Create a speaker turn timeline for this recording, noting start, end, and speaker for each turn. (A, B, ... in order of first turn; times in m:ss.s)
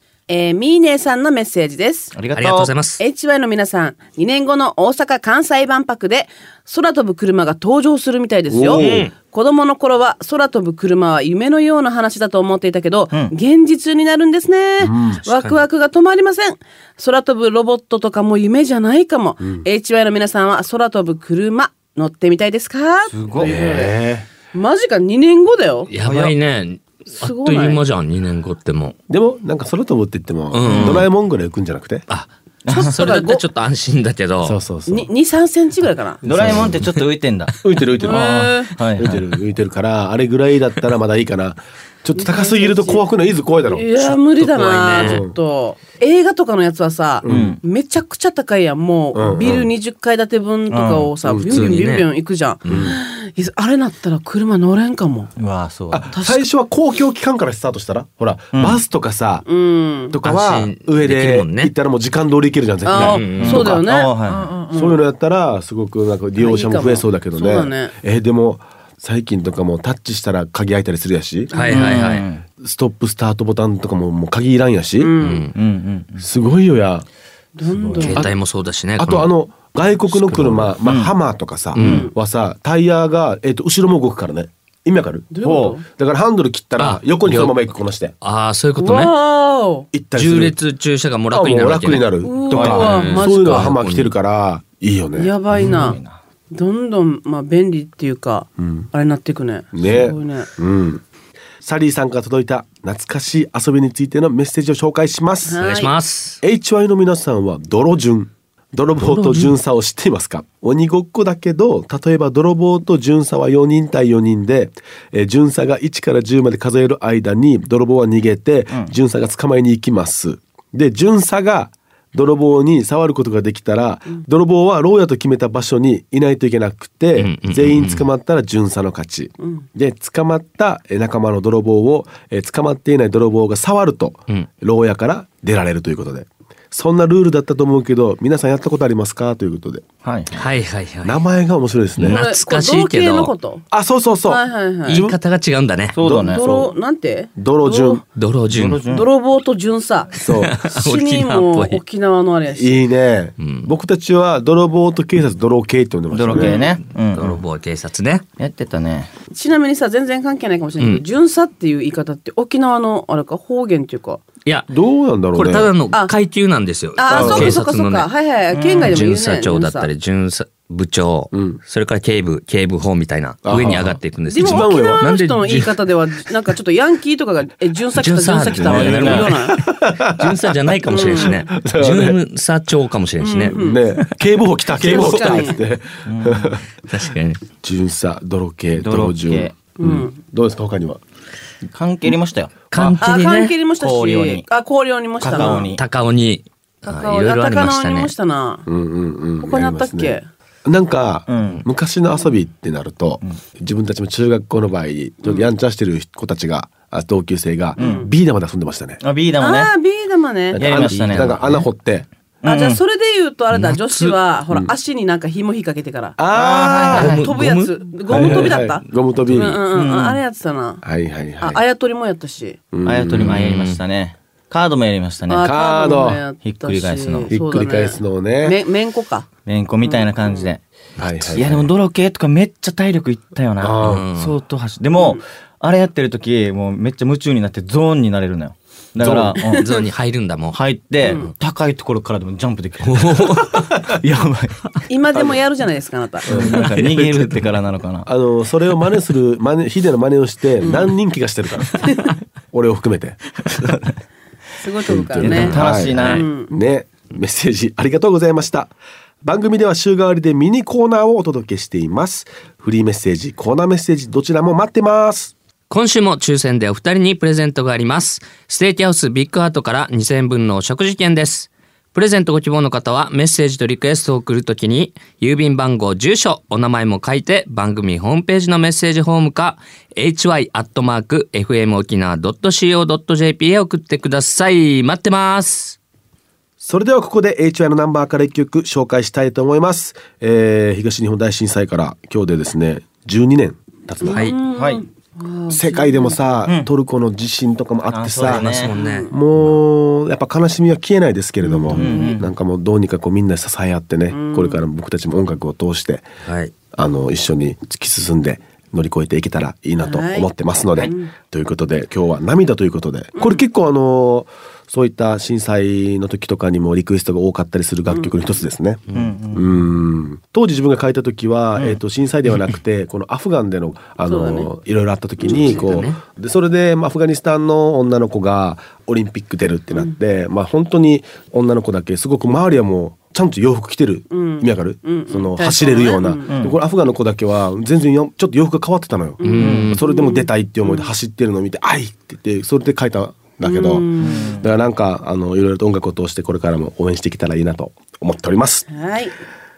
0:00.3-0:02.1 A
0:02.1-0:02.7 B
0:02.4-0:03.0 C
0:03.0-0:24.0 A
0:08.5-0:09.1 D
0:08.8-0:09.1 C
0:14.8-0:15.2 D
0:15.2-0:15.7 C
0:19.4-0:19.6 D
0:23.1-0:23.6 B
0:23.4-0:24.3 D
0:24.5-0:25.9 A
0:25.9-0:29.0 C
0:27.1-0:27.8 A
0:29.1-0:32.0 D
0:30.5-0:31.1 C
0:30.6-0:31.1 B
0:32.1-0:34.6 C
0:32.6-0:33.0 B
0:32.7-0:33.4 A
0:34.4-0:35.1 D
0:34.9-0:36.2 A
0:36.2-0:39.2 B
0:36.2-0:36.8 D
0:36.4-0:36.8 C
0:37.6-0:38.4 D
0:38.0-0:38.8 A
0:39.0-0:44.2 D
0:42.2-0:43.0 A
0:43.7-0:55.3 A
0:44.4-0:45.2 C
0:45.0-0:45.3 D
0:47.2-0:47.5 D
0:47.2-0:47.6 B
0:49.1-0:49.7 D
0:50.7-0:51.1 B
0:51.2-0:51.5 D
0:51.5-0:52.1 C
0:52.6-0:52.9 C
0:52.7-0:53.0 D
0:55.4-0:56.1 B
0:55.9-0:59.4 D
0:56.1-0:56.4 A
0:58.5-0:58.8 B
0:59.4-1:00.2 A
1:00.1-1:03.8 D
1:00.2-1:01.7 C
1:02.8-1:05.0 A
1:02.9-1:03.6 C
1:03.4-1:04.6 B
1:04.6-1:11.5 D
1:06.4-1:07.9 A
1:11.5-1:11.9 A
1:11.5-1:12.2 C
1:11.7-1:12.4 B
1:12.6-1:15.2 D
1:15.0-1:15.5 A
1:15.2-1:15.5 C
1:15.5-1:16.2 B
1:16.2-1:17.0 D
1:17.6-1:18.3 A
1:17.7-1:18.2 B
1:18.0-1:19.3 C
1:18.0-1:18.3 D
1:19.0-1:28.1 D
1:20.1-1:20.8 C
1:20.8-1:21.1 B
1:21.7-1:22.1 C
1:21.8-1:22.1 A
1:25.3-1:25.8 A
1:25.4-1:25.8 B
1:26.8-1:29.1 C
1:28.8-1:29.9 A
1:29.9-1:30.6 D
1:30.1-1:32.1 C
1:31.3-1:35.3 D
1:32.2-1:33.6 A
1:32.5-1:33.2 B
1:32.6-1:34.1 C
1:35.1-1:36.0 A
1:35.6-1:36.2 B
1:36.5-1:40.5 A
1:38.6-1:38.9 D
1:39.7-1:41.0 D
1:41.6-1:45.6 D
1:45.4-1:45.9 A
1:45.6-1:46.4 C
1:46.4-2:19.8 D
1:49.0-1:49.6 C
2:07.2-2:08.1 C
2:09.4-2:09.6 A
2:20.0-2:20.5 B
2:20.3-2:21.2 C
2:21.0-2:22.2 D
2:22.0-2:23.3 C
2:22.0-2:23.6 A
2:23.7-2:25.2 D
2:24.2-2:25.0 A
2:24.8-2:26.0 C
2:25.9-2:26.7 B
2:26.0-2:26.7 D
2:26.1-2:28.0 A
2:27.4-2:28.0 D
2:28.1-2:28.8 C
2:28.5-2:29.1 B
2:28.9-2:30.2 A
2:30.2-2:30.5 D
2:30.3-2:31.8 C
2:30.7-2:32.9 A
2:32.5-2:36.6 D
2:33.4-2:33.7 C
2:36.1-2:37.4 B
2:36.3-2:36.8 A
2:36.9-2:38.2 C
2:38.4-2:39.1 B
2:39.3-2:44.2 A
2:44.4-2:44.7 C
2:44.7-2:45.7 D
2:45.3-2:48.1 C
2:47.0-2:49.9 A
2:47.1-2:47.6 D
2:48.5-2:49.0 B
2:48.8-2:55.8 C
2:51.3-2:51.6 D
2:53.4-2:55.0 D
2:54.3-2:59.6 A
2:58.0-3:04.0 C
2:58.6-2:59.3 B
2:59.2-3:02.2 D
3:00.9-3:01.5 A
3:03.2-3:03.9 A
3:03.5-3:06.6 D
3:04.8-3:05.6 A
3:04.9-3:05.4 C
3:06.0-3:06.6 B
3:06.8-3:07.4 C
3:07.6-3:11.0 D
3:08.8-3:09.5 B
3:09.8-3:10.1 A
3:11.7-3:13.0 B
3:12.7-3:13.5 C
3:12.8-3:15.8 A
3:13.7-3:14.4 B
3:15.2-3:15.8 B
3:15.3-3:15.6 D
3:15.7-3:18.1 C
3:16.8-3:18.6 A
3:18.6-3:29.0 D
3:19.4-3:20.3 A
3:21.3-3:21.6 B
3:27.8-3:28.1 A
3:27.8-3:28.1 B
3:29.0-3:29.7 B
3:29.4-3:30.7 A
3:30.5-3:32.1 D
3:30.6-3:31.4 B
3:30.8-3:31.6 C
3:32.4-3:32.8 B
3:32.4-3:36.2 A
3:33.5-3:34.2 C
3:36.2-3:37.2 D
3:36.3-3:37.2 B
3:36.9-3:40.8 A
3:36.9-3:38.6 C
3:38.1-3:39.6 D
3:39.2-3:39.6 C
3:39.7-3:40.2 B
3:40.8-3:41.6 D
3:41.4-3:42.6 A
3:42.7-3:43.4 D
3:42.8-3:45.5 B
3:43.2-3:43.8 C
3:45.3-3:49.3 A
3:45.4-3:46.2 D
3:46.4-3:47.3 B
3:47.3-3:48.6 D
3:49.4-3:50.6 B
3:49.8-3:50.5 A
3:51.0-3:51.3 C
3:51.0-3:51.7 D
3:51.3-3:59.6 B
3:53.6-3:54.0 D
3:53.8-3:54.4 C
3:59.0-3:59.3 D
3:59.4-3:59.9 A
3:59.5-4:01.2 C
4:00.5-4:04.7 B
4:01.0-4:01.3 A
4:02.8-4:03.8 C
4:04.9-4:06.5 A
4:05.1-4:05.4 D
4:06.2-4:08.1 B
4:06.3-4:06.6 D
4:06.5-4:07.5 C
4:08.0-4:13.2 D
4:10.6-4:10.9 A
4:11.8-4:12.2 A
4:13.6-4:13.9 B
4:14.6-4:16.5 A
4:14.8-4:25.3 D
4:15.2-4:16.2 B
4:25.7-4:45.8 C
4:46.6-4:54.3 D
4:54.0-4:56.2 A
4:54.1-4:54.4 C
4:54.5-4:54.8 B
4:55.5-4:58.6 D
4:57.9-4:58.7 B
4:58.2-4:59.1 C
4:58.7-4:59.1 A
4:59.1-5:06.1 D
5:01.4-5:02.2 A
5:01.7-5:02.3 B
5:04.1-5:04.6 A
5:06.2-5:06.5 C
5:06.7-5:48.7 D
5:09.8-5:11.1 A
5:13.1-5:13.4 A
5:17.9-5:18.2 A
5:18.9-5:19.4 B
5:24.0-5:24.5 A
5:25.2-5:25.6 A
5:25.2-5:26.0 C
5:34.1-5:36.4 A
5:36.3-5:36.6 B
5:39.2-5:39.8 C
5:39.2-5:40.9 A
5:39.4-5:39.8 B
5:43.4-5:44.4 A
5:44.0-5:44.4 B
5:48.7-5:49.1 A